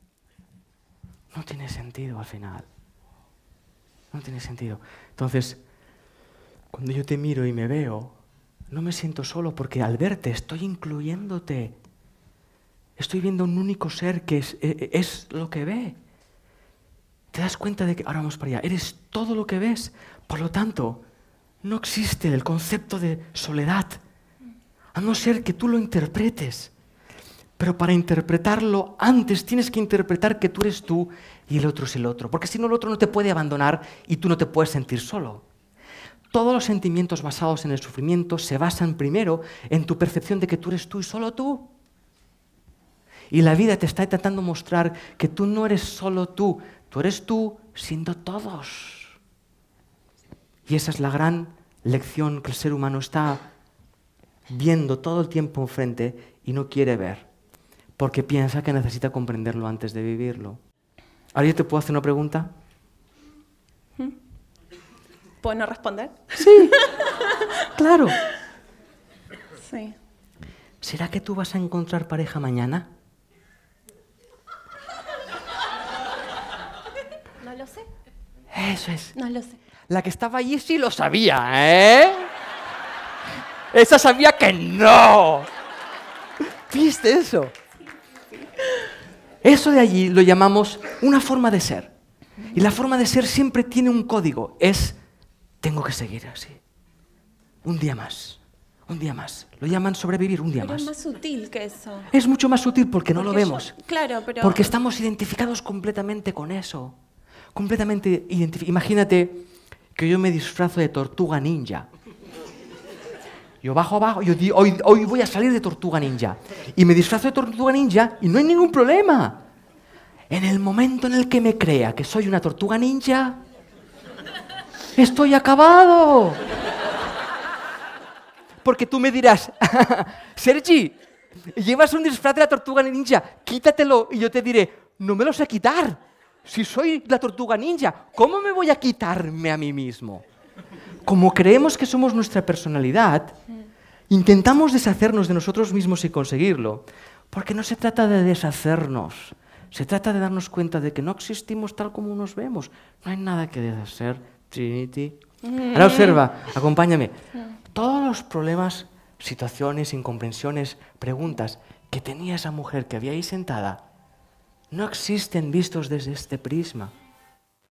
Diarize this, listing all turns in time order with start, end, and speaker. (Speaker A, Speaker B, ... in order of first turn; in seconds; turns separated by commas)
Speaker A: 1.3-2.7, Speaker A: 4.1-5.6, Speaker A: 6.7-8.2, Speaker A: 8.7-11.8, Speaker A: 13.0-16.0, Speaker A: 17.3-21.0, Speaker A: 21.6-24.0, Speaker A: 24.9-26.7, Speaker A: 27.6-35.4, Speaker A: 36.3-41.7, Speaker A: 43.3-49.2, Speaker A: 50.7-53.4, Speaker A: 54.5-57.3, Speaker A: 58.0-60.6, Speaker A: 61.3-62.5, Speaker B: 65.4-67.5, Speaker A: 66.3-66.8, Speaker A: 67.7-68.2, Speaker B: 69.6-70.0, Speaker A: 70.8-72.9, Speaker B: 77.4-77.9, Speaker A: 78.5-79.1, Speaker B: 79.1-79.6, Speaker A: 79.9-82.3, Speaker A: 83.7-85.5, Speaker A: 86.7-87.5, Speaker A: 89.4-91.9, Speaker A: 92.5-95.0, Speaker A: 95.6-96.6, Speaker A: 97.6-100.9, Speaker B: 100.6-102.1, Speaker A: 102.1-103.7, Speaker B: 103.2-104.7, Speaker A: 104.4-107.0, Speaker A: 107.5-111.9, Speaker A: 113.6-119.4, Speaker A: 120.3-123.4, Speaker A: 125.0-126.4, Speaker A: 128.6-130.9, Speaker A: 131.5-140.2, Speaker A: 141.0-143.4, Speaker A: 144.1-157.2, Speaker B: 155.4-156.2, Speaker A: 157.7-163.8, Speaker A: 164.7-166.9